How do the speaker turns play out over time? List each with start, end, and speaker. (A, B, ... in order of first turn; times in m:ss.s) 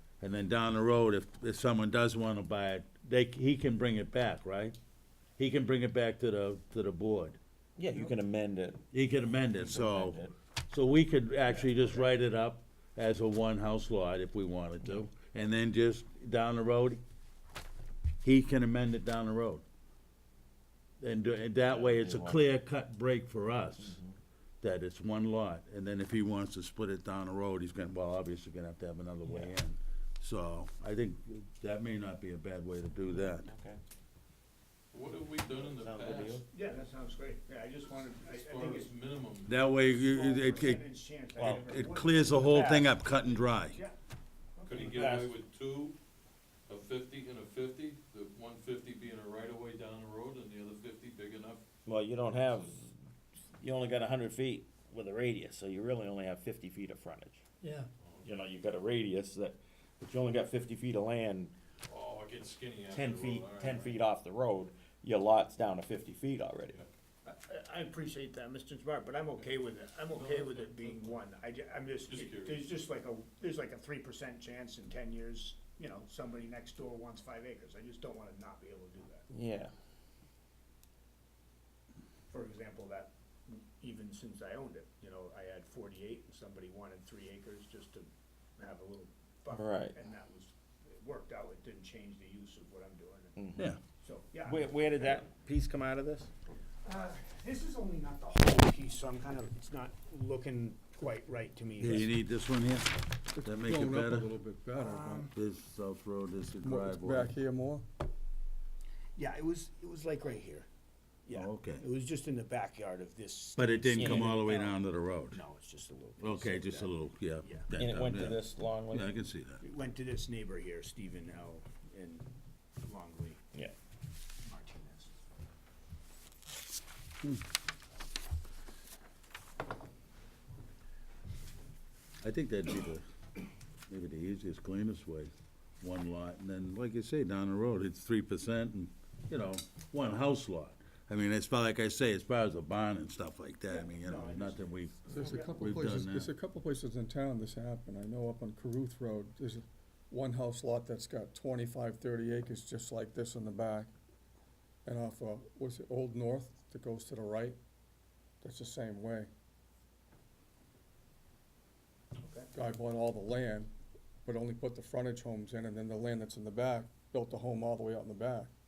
0:00.2-0:04.8 A
0:05.4-0:07.4 A
0:07.8-0:08.9 B
0:08.9-0:17.0 A
0:09.4-0:10.3 B
0:18.2-0:19.6 A
0:21.0-0:24.0 A
0:21.7-0:22.4 B
0:23.8-0:24.2 B
0:24.6-0:33.5 A
0:29.2-0:29.5 B
0:33.2-0:33.8 B
0:34.9-0:36.4 C
0:35.5-0:36.4 B
0:36.5-0:38.9 D
0:38.2-0:39.5 C
0:39.5-0:40.8 A
0:39.8-0:44.0 D
0:41.4-0:41.7 B
0:41.4-0:43.8 A
0:44.6-0:45.3 D
0:44.7-0:46.0 C
0:44.8-0:45.4 B
0:46.7-0:51.6 C
0:51.9-0:53.0 B
0:53.6-0:57.4 B
0:58.0-0:58.4 C
0:58.2-1:01.5 B
1:01.9-1:04.0 C
1:02.9-1:06.8 B
1:07.2-1:19.3 D
1:10.1-1:11.2 C
1:12.1-1:12.7 C
1:19.3-1:19.7 B
1:22.3-1:35.3 D
1:29.5-1:30.0 B
1:33.4-1:33.7 B
1:34.4-1:36.3 B
1:36.8-1:42.1 D
1:41.8-1:44.3 A
1:43.4-1:45.3 E
1:44.8-1:45.3 D
1:45.3-1:47.3 A
1:46.6-1:47.8 E
1:49.2-1:50.7 D
1:51.3-1:56.9 D
1:51.3-1:51.8 A
1:53.6-1:55.4 A
1:54.0-1:54.4 B
1:56.2-1:59.6 A
1:57.8-1:59.1 B
1:59.6-2:02.3 D
2:02.8-2:03.4 D
2:04.4-2:05.1 D
2:12.2-2:13.0 A
2:13.9-2:25.0 A
2:23.7-2:25.6 D
2:25.1-2:33.9 E
2:25.6-2:26.3 A
2:34.8-2:37.6 E
2:38.4-2:39.3 E
2:42.2-2:42.5 D
2:42.5-2:43.7 E
2:44.2-2:48.5 E